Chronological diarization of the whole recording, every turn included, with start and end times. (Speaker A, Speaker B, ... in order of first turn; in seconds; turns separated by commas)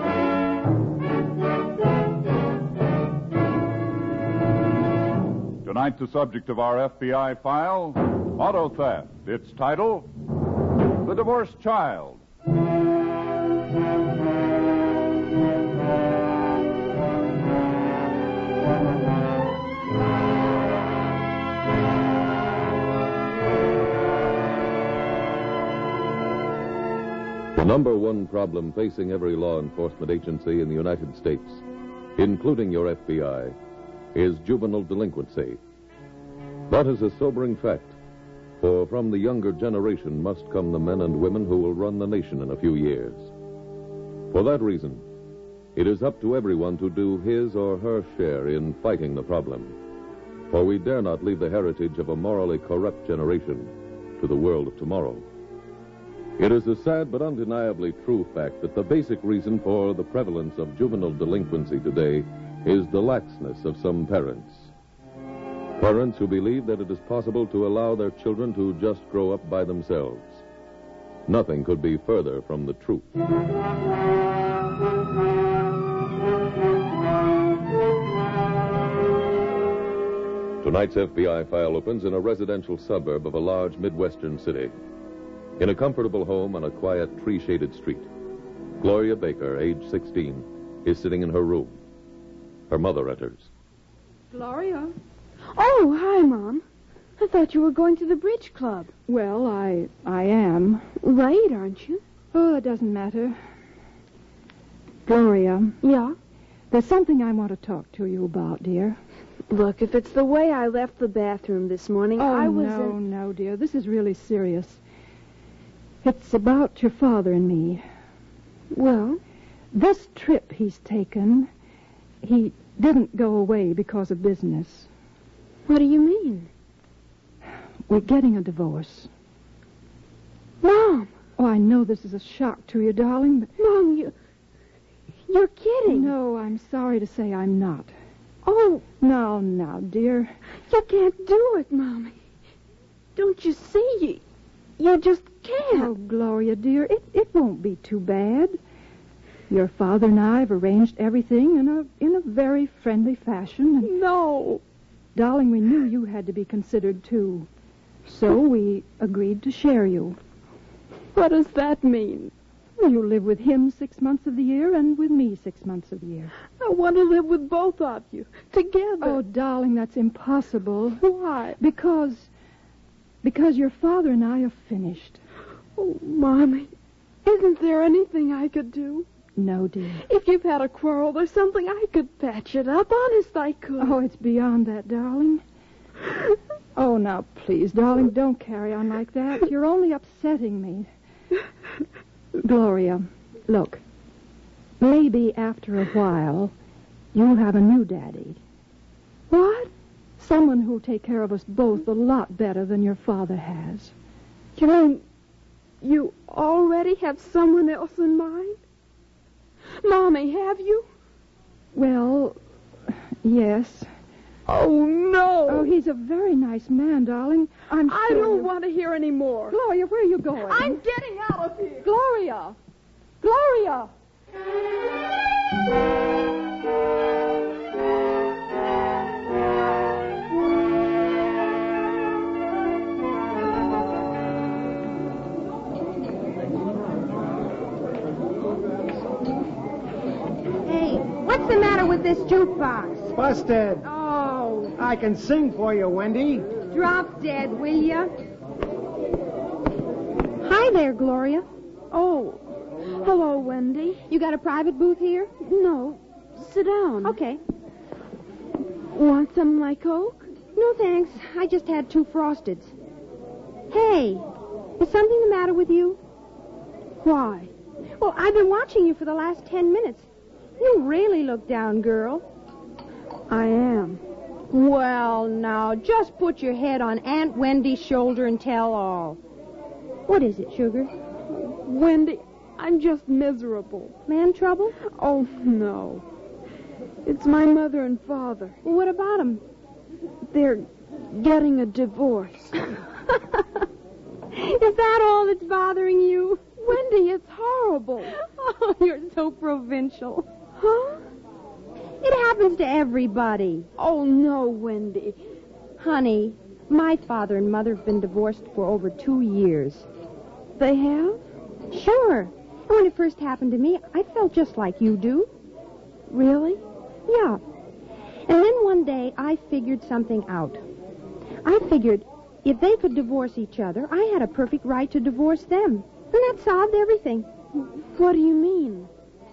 Speaker A: 5.6-10.1, Speaker A: 11.0-12.2, Speaker B: 27.5-31.6, Speaker B: 32.2-33.5, Speaker B: 34.1-35.6, Speaker B: 36.7-38.0, Speaker B: 38.6-43.3, Speaker B: 44.3-45.0, Speaker B: 45.7-49.7, Speaker B: 50.5-55.2, Speaker B: 56.4-64.7, Speaker B: 65.8-70.4, Speaker B: 71.3-73.1, Speaker B: 80.6-84.7, Speaker B: 85.6-88.1, Speaker B: 88.8-91.8, Speaker B: 92.7-93.5, Speaker C: 94.3-94.9, Speaker D: 95.5-96.6, Speaker D: 97.2-98.9, Speaker C: 99.1-100.9, Speaker D: 101.0-102.0, Speaker C: 102.3-103.4, Speaker C: 105.0-105.8, Speaker D: 105.8-106.2, Speaker C: 106.7-109.0, Speaker D: 109.5-113.0, Speaker C: 112.2-114.8, Speaker C: 116.0-117.8, Speaker D: 118.7-119.2, Speaker C: 119.7-121.5, Speaker C: 122.2-124.9, Speaker D: 125.7-126.5, Speaker C: 127.9-129.1, Speaker D: 130.6-131.1, Speaker C: 131.4-133.5, Speaker D: 133.6-134.1, Speaker D: 135.3-136.1, Speaker C: 135.8-137.9, Speaker D: 138.4-138.8, Speaker C: 138.9-140.3, Speaker D: 140.7-142.2, Speaker D: 143.1-144.2, Speaker D: 144.8-145.9, Speaker C: 145.7-148.6, Speaker C: 149.5-153.9, Speaker D: 153.8-154.6, Speaker C: 155.1-157.5, Speaker C: 158.1-160.2, Speaker D: 161.1-162.3, Speaker C: 162.8-166.3, Speaker D: 166.6-169.2, Speaker C: 169.0-171.0, Speaker D: 171.0-171.6, Speaker C: 171.6-172.3, Speaker C: 173.2-175.2, Speaker D: 175.8-176.7, Speaker D: 177.2-179.1, Speaker C: 179.3-180.0, Speaker D: 180.0-183.9, Speaker C: 183.8-185.4, Speaker C: 186.8-190.9, Speaker C: 192.4-193.8, Speaker C: 194.8-196.5, Speaker C: 197.1-198.4, Speaker D: 199.3-199.7, Speaker C: 200.2-203.9, Speaker D: 204.6-205.0, Speaker D: 205.8-208.6, Speaker D: 209.8-210.9, Speaker C: 211.7-212.4, Speaker C: 213.2-213.9, Speaker D: 214.5-215.7, Speaker C: 215.5-218.5, Speaker D: 217.9-219.6, Speaker C: 219.5-220.8, Speaker D: 220.5-221.8, Speaker C: 221.8-222.6, Speaker C: 223.3-223.9, Speaker E: 240.6-243.1, Speaker F: 243.1-243.8, Speaker E: 243.8-244.7, Speaker F: 244.7-246.6, Speaker E: 246.7-248.1, Speaker E: 250.4-251.5, Speaker D: 251.9-254.0, Speaker E: 254.1-255.3, Speaker D: 255.4-257.2, Speaker E: 257.0-257.4, Speaker D: 258.9-260.3, Speaker E: 260.5-262.7, Speaker E: 263.7-264.2, Speaker E: 264.8-266.0, Speaker D: 267.0-267.5, Speaker E: 268.0-270.1, Speaker E: 270.6-272.2, Speaker D: 273.3-274.0, Speaker E: 274.5-279.2, Speaker E: 280.1-280.9, Speaker D: 281.3-283.9, Speaker E: 284.1-284.7, Speaker D: 284.8-286.0, Speaker D: 287.0-288.6, Speaker E: 288.6-289.4, Speaker D: 290.3-292.6, Speaker E: 294.3-296.5, Speaker D: 296.6-298.1, Speaker E: 298.2-300.3, Speaker D: 300.6-301.0, Speaker E: 302.0-303.7, Speaker D: 303.8-305.2, Speaker E: 305.8-309.9, Speaker D: 310.6-311.2, Speaker E: 311.7-315.3, Speaker D: 316.1-316.6, Speaker E: 317.1-317.4, Speaker E: 318.3-320.6, Speaker E: 321.4-327.3, Speaker D: 327.9-328.9